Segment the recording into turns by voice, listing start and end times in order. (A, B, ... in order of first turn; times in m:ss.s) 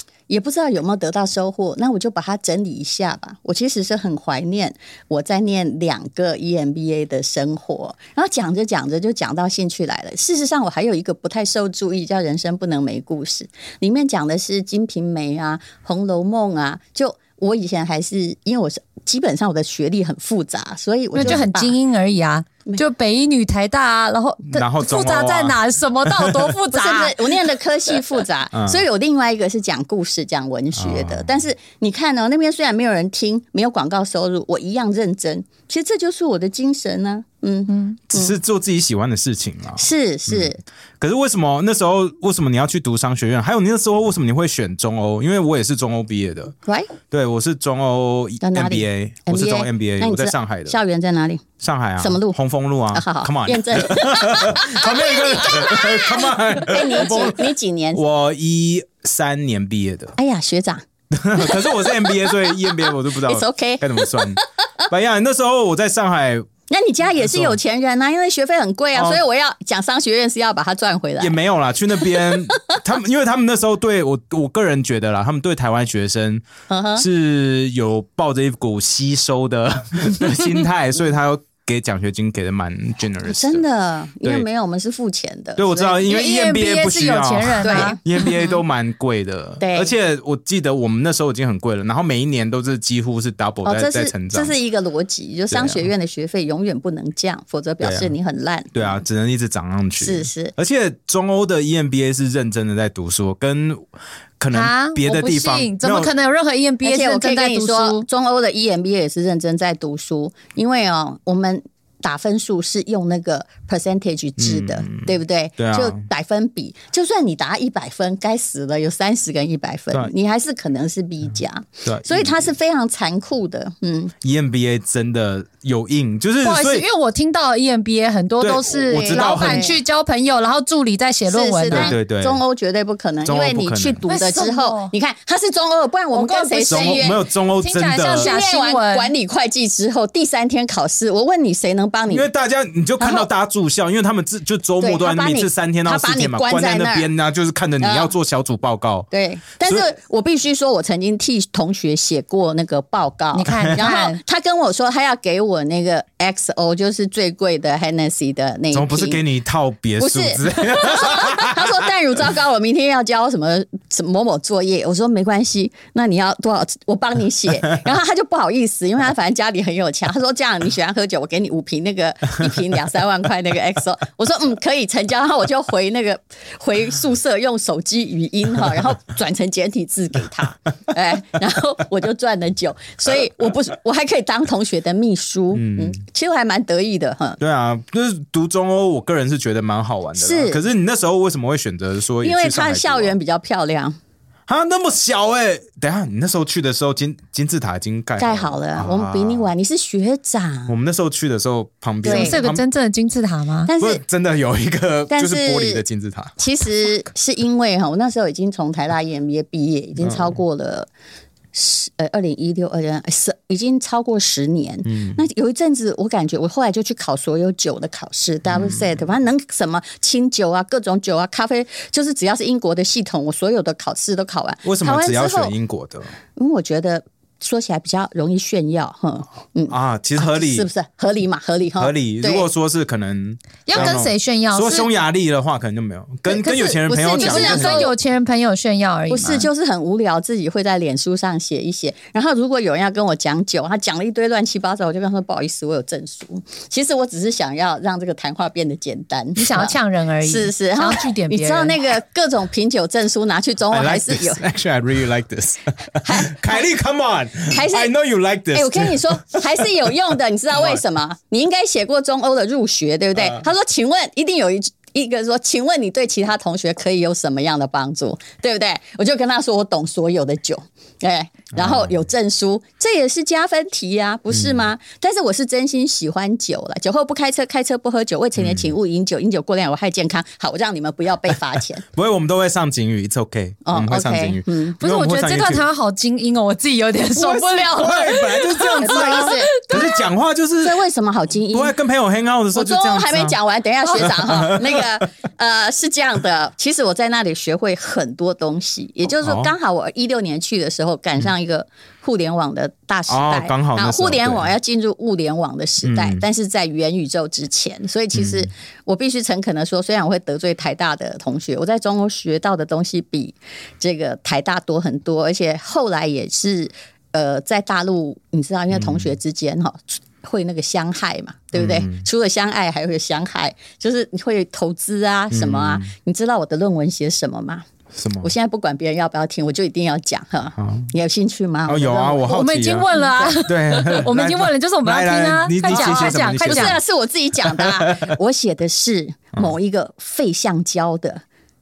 0:00.3-0:21.8 A
0:21.1-0:27.3 B
0:24.5-0:26.5 C
0:26.7-0:38.3 A
0:28.5-0:28.8 C
0:30.8-0:31.4 C
0:38.1-0:46.5 C
0:39.8-0:40.6 A
0:46.6-0:46.9 A
0:47.1-0:50.8 C
0:48.4-0:51.4 A
0:51.6-1:00.2 C
0:52.0-0:52.4 A
0:52.9-0:58.0 A
1:00.2-1:00.8 A
1:01.1-1:06.5 C
1:01.4-1:04.4 A
1:06.7-1:11.4 A
1:07.1-1:07.6 C
1:08.9-1:09.2 C
1:11.2-1:16.4 C
1:16.7-1:17.0 A
1:17.0-1:23.6 C
1:23.2-1:26.1 A
1:25.6-1:34.5 C
1:26.1-1:28.0 B
1:27.6-1:28.5 A
1:29.6-1:29.9 A
1:33.6-1:39.0 A
1:35.5-1:35.9 C
1:37.8-1:38.1 C
1:38.7-1:43.9 C
1:40.0-1:40.5 A
1:44.4-1:46.1 C
1:44.5-1:48.0 B
1:46.8-2:04.1 A
1:54.4-1:56.0 C
2:01.8-2:02.5 C
2:04.2-2:06.8 C
2:06.4-2:11.9 B
2:08.4-2:09.7 C
2:08.9-2:09.8 A
2:11.3-2:17.2 A
2:11.7-2:12.4 C
2:13.2-2:14.0 C
2:14.1-2:14.9 B
2:16.1-2:19.1 B
2:16.7-2:18.3 C
2:18.0-2:22.3 A
2:22.1-2:29.1 C
2:23.0-2:23.3 A
2:24.8-2:27.1 A
2:27.8-2:28.1 A
2:29.1-2:39.2 A
2:33.3-2:34.2 B
2:33.5-2:33.8 C
2:38.7-2:41.8 C
2:40.0-3:07.4 A
3:05.5-3:06.0 C
3:07.4-3:13.1 C
3:10.2-3:10.6 A
3:12.2-3:14.0 A
3:14.5-3:19.5 C
3:18.2-3:20.7 A
3:20.7-3:22.6 C
3:22.0-3:22.4 A
3:22.0-3:23.7 B
3:23.7-3:24.0 A
3:23.8-3:26.4 C
3:25.1-3:25.8 A
3:26.4-3:30.9 A
3:30.0-3:30.4 C
3:31.5-3:45.5 A
3:34.8-3:35.2 C
3:38.5-3:38.9 C
3:44.6-3:46.1 C
3:46.4-3:52.5 A
3:49.7-3:50.7 C
3:51.8-3:57.9 C
3:53.6-3:54.9 B
3:56.4-3:57.9 A
3:57.0-3:59.5 B
3:59.1-4:14.4 A
4:09.4-4:11.8 B
4:13.7-4:19.6 C
4:16.0-4:16.7 A
4:17.5-4:17.9 A
4:18.5-4:41.8 A
4:31.6-4:31.9 C
4:34.3-4:34.7 C
4:38.4-4:38.7 C
4:41.9-4:45.6 C
4:43.6-4:44.8 A
4:44.8-4:50.0 B
4:47.2-4:50.8 C
4:48.8-4:49.7 A
4:50.6-4:51.7 A
4:51.5-4:53.4 C
4:52.5-5:27.6 A
4:53.9-4:55.0 C
4:59.2-4:59.5 C
5:03.1-5:04.5 C
5:05.8-5:06.2 C
5:08.1-5:08.5 C
5:18.7-5:19.1 C
5:21.5-5:22.0 C
5:25.3-5:25.9 C
5:27.9-5:28.3 C
5:28.2-5:32.4 A
5:30.6-5:30.9 C
5:31.7-5:36.8 C
5:32.3-5:36.8 B
5:32.9-5:33.4 A
5:35.7-5:41.2 A
5:37.4-5:38.1 C